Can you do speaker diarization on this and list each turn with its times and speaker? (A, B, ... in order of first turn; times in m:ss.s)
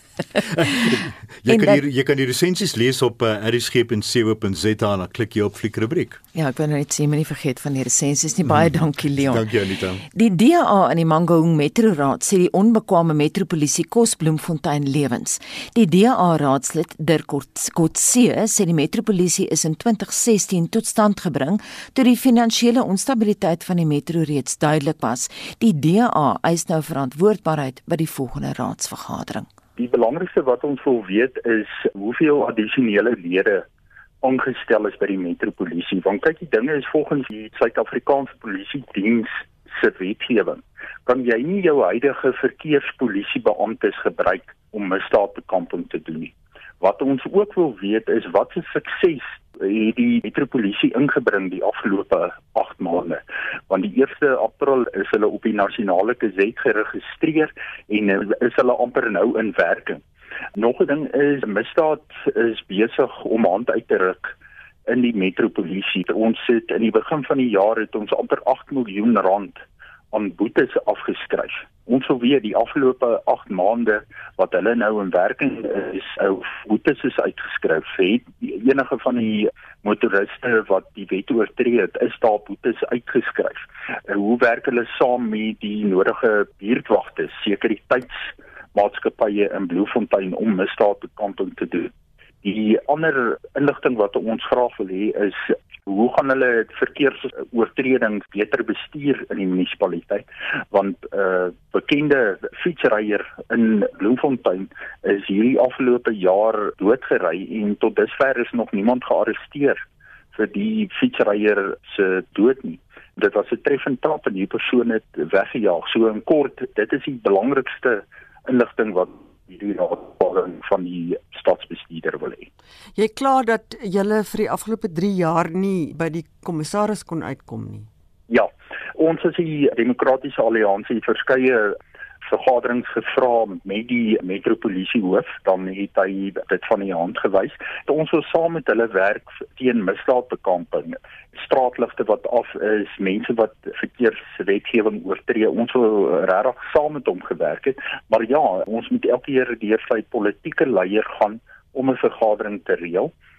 0:00.4-0:06.2 A
0:01.5-0:01.8 B
0:06.3-0:09.5 B
0:08.5-0:10.0 A
0:10.1-0:29.5 B
0:29.8-0:33.6 C
0:34.2-1:00.0 C
1:00.6-1:04.3 C
1:04.9-1:09.6 C
1:10.1-1:31.9 C
1:32.4-1:49.8 C
1:50.3-2:02.5 C
2:03.0-2:07.9 D
2:08.3-2:33.1 C